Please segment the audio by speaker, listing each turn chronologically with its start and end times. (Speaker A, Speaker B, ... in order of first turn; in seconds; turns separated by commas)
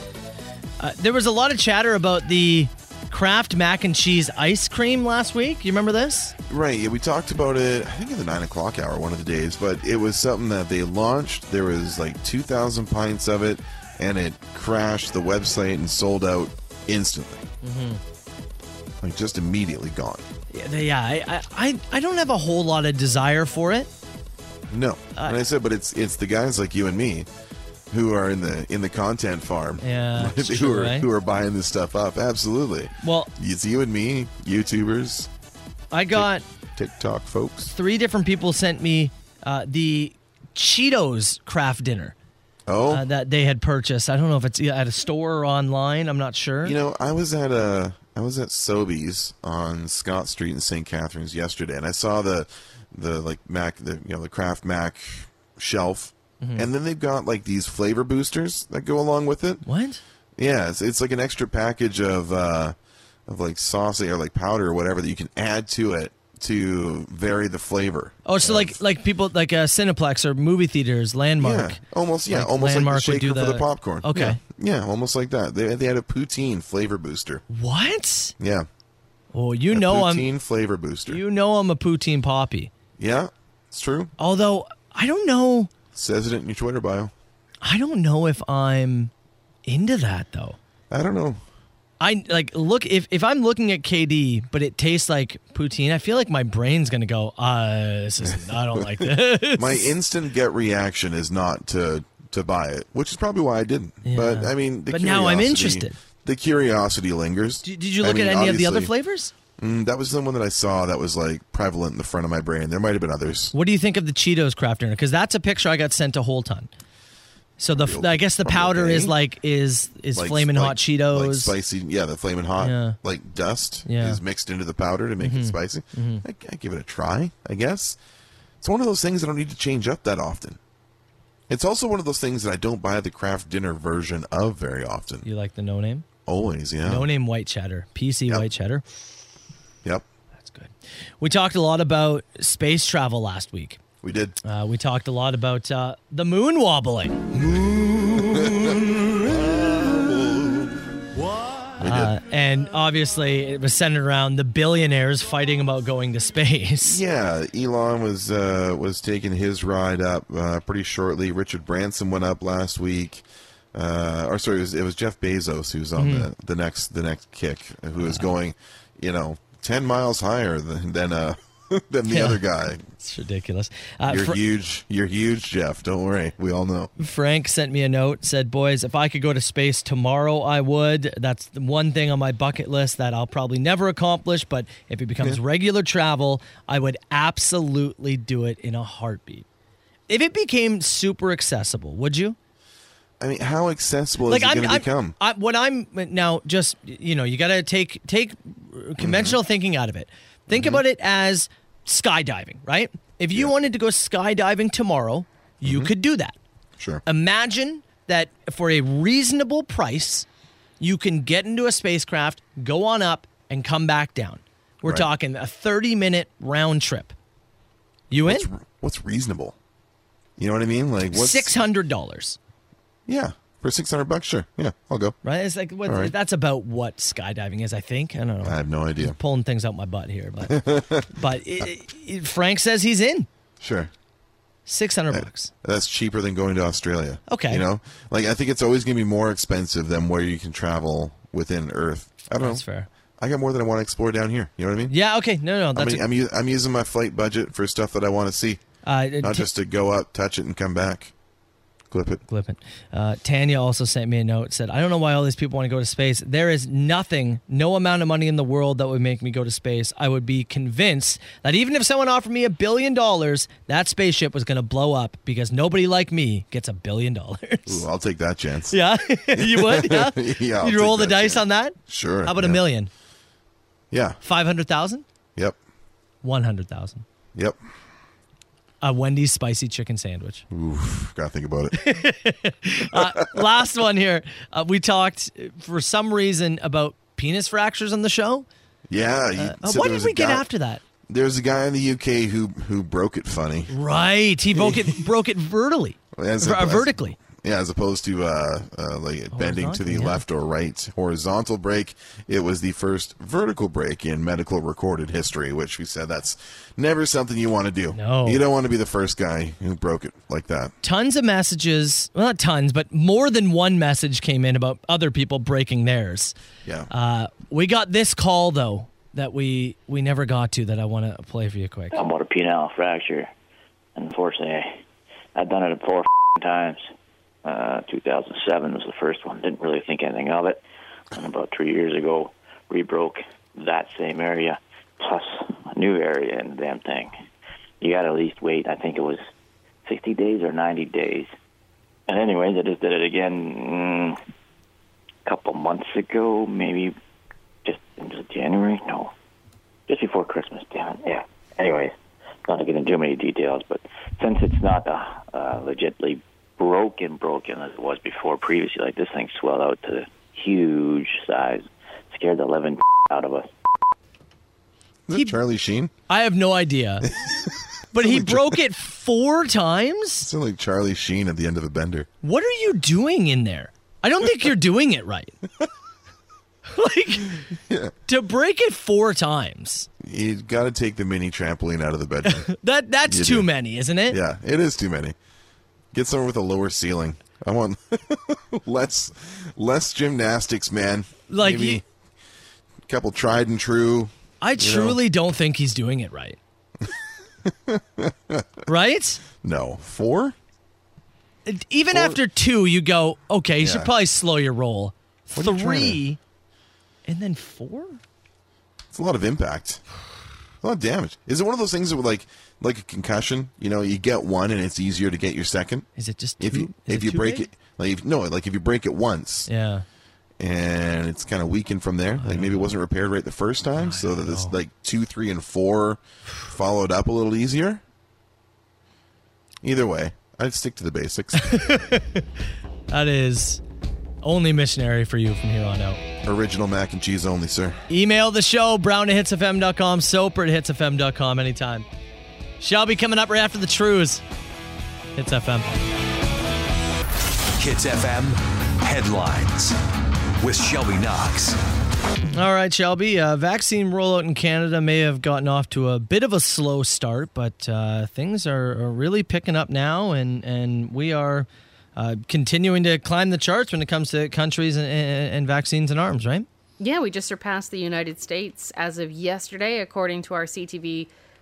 Speaker A: 0.8-6.3, Speaker B: 6.5-17.4, Speaker A: 17.6-18.0, Speaker B: 19.0-20.2, Speaker A: 20.5-23.9, Speaker B: 24.7-27.3, Speaker B: 27.9-35.3, Speaker A: 29.8-31.1, Speaker A: 33.0-33.3, Speaker A: 35.9-36.4, Speaker B: 36.1-37.7, Speaker A: 37.7-42.1, Speaker B: 42.7-43.0, Speaker A: 42.9-46.8, Speaker B: 46.6-59.6, Speaker A: 56.4-56.7, Speaker A: 59.6-60.0, Speaker B: 60.4-62.8, Speaker B: 63.3-68.8, Speaker A: 68.2-74.4, Speaker B: 71.4-77.4, Speaker A: 77.5-78.3, Speaker B: 78.4-78.7, Speaker A: 79.3-80.3, Speaker B: 79.7-81.2, Speaker A: 81.1-82.7, Speaker B: 83.0-84.1, Speaker A: 84.2-85.7, Speaker B: 85.9-87.1, Speaker A: 87.6-89.1, Speaker A: 89.7-90.6, Speaker B: 90.9-91.4, Speaker A: 92.0-99.9, Speaker B: 98.2-108.9, Speaker A: 104.0-105.9, Speaker A: 107.6-109.3, Speaker B: 109.6-113.5, Speaker A: 113.5-116.7, Speaker A: 117.6-121.5, Speaker B: 117.7-119.2, Speaker B: 120.1-128.0, Speaker A: 122.6-123.0, Speaker A: 123.8-124.2, Speaker A: 125.2-126.2, Speaker B: 128.6-130.6, Speaker B: 131.5-135.2, Speaker A: 135.2-136.1, Speaker B: 136.2-137.1, Speaker A: 136.8-138.8, Speaker A: 140.4-143.8, Speaker B: 144.0-144.3, Speaker A: 144.4-148.8, Speaker B: 147.6-151.0, Speaker B: 151.8-152.2, Speaker A: 151.8-157.0, Speaker B: 156.8-172.8, Speaker A: 166.0-166.3, Speaker A: 168.0-168.3, Speaker A: 172.1-174.4, Speaker B: 174.1-176.9, Speaker A: 177.0-189.4, Speaker A: 190.1-192.3, Speaker B: 193.2-195.1, Speaker A: 194.3-206.3, Speaker B: 199.0-199.4, Speaker B: 200.5-200.8, Speaker B: 205.6-205.9, Speaker B: 206.8-207.0, Speaker A: 207.1-210.2, Speaker A: 210.8-217.1, Speaker A: 218.1-218.5, Speaker B: 218.2-219.6, Speaker B: 220.4-221.5, Speaker A: 221.1-222.4, Speaker B: 223.1-225.2, Speaker A: 225.2-233.3, Speaker B: 225.8-226.1, Speaker B: 228.4-229.2, Speaker B: 230.4-231.1, Speaker B: 233.6-233.9, Speaker A: 234.7-235.5, Speaker B: 235.1-242.6, Speaker A: 237.3-237.6, Speaker A: 242.4-242.9, Speaker B: 243.2-244.9, Speaker A: 244.9-246.0, Speaker B: 245.7-248.6, Speaker A: 248.8-249.5, Speaker B: 249.2-251.1, Speaker B: 251.9-252.2, Speaker A: 252.3-267.8, Speaker B: 267.6-268.8, Speaker A: 268.7-272.9, Speaker B: 269.3-272.6, Speaker B: 273.9-274.2, Speaker A: 274.2-275.0, Speaker A: 276.2-277.0, Speaker A: 278.8-280.4, Speaker B: 280.5-281.8, Speaker A: 281.7-288.4, Speaker B: 282.9-283.3, Speaker B: 288.9-290.4, Speaker A: 289.4-290.8, Speaker B: 291.1-293.7, Speaker A: 293.7-297.2, Speaker B: 294.5-295.1, Speaker B: 296.1-310.7, Speaker A: 299.3-300.2, Speaker A: 307.9-308.4, Speaker A: 310.8-316.3, Speaker A: 316.9-322.0, Speaker C: 321.9-323.3, Speaker C: 323.9-324.8, Speaker C: 325.3-326.9, Speaker C: 327.4-330.6, Speaker C: 331.1-337.1, Speaker C: 337.8-339.2, Speaker C: 339.9-341.3, Speaker C: 342.1-344.2, Speaker C: 345.2-346.9, Speaker C: 347.6-349.1, Speaker C: 349.9-351.9, Speaker C: 352.4-363.5, Speaker B: 365.1-365.9, Speaker A: 365.1-365.4, Speaker A: 366.1-367.1, Speaker B: 367.2-368.6, Speaker A: 367.9-370.3, Speaker B: 370.2-372.1, Speaker A: 372.2-375.4, Speaker A: 376.7-377.4, Speaker B: 377.5-377.9, Speaker A: 378.1-379.9, Speaker B: 380.0-382.5, Speaker A: 382.2-384.2, Speaker B: 383.1-383.5, Speaker B: 384.1-385.1, Speaker B: 385.9-391.8, Speaker A: 391.3-391.8, Speaker B: 392.9-395.0, Speaker A: 394.4-396.4, Speaker B: 397.4-398.5, Speaker A: 398.7-399.2, Speaker B: 399.4-400.4, Speaker A: 401.4-406.2, Speaker B: 401.9-402.2, Speaker B: 403.6-403.9, Speaker B: 405.3-406.0, Speaker A: 407.1-408.0, Speaker B: 408.9-409.8, Speaker B: 410.6-415.9, Speaker A: 415.9-417.5, Speaker B: 416.4-419.5, Speaker A: 419.5-419.8, Speaker B: 420.4-427.8, Speaker A: 422.2-422.7, Speaker A: 423.8-424.6, Speaker B: 429.6-431.6, Speaker A: 431.4-432.2, Speaker A: 432.9-433.6, Speaker A: 434.2-436.0, Speaker B: 436.2-437.8, Speaker A: 437.9-441.9, Speaker A: 442.6-444.2, Speaker A: 445.1-445.8, Speaker D: 447.6-449.8, Speaker D: 450.4-451.6, Speaker A: 452.3-466.4, Speaker E: 466.8-471.1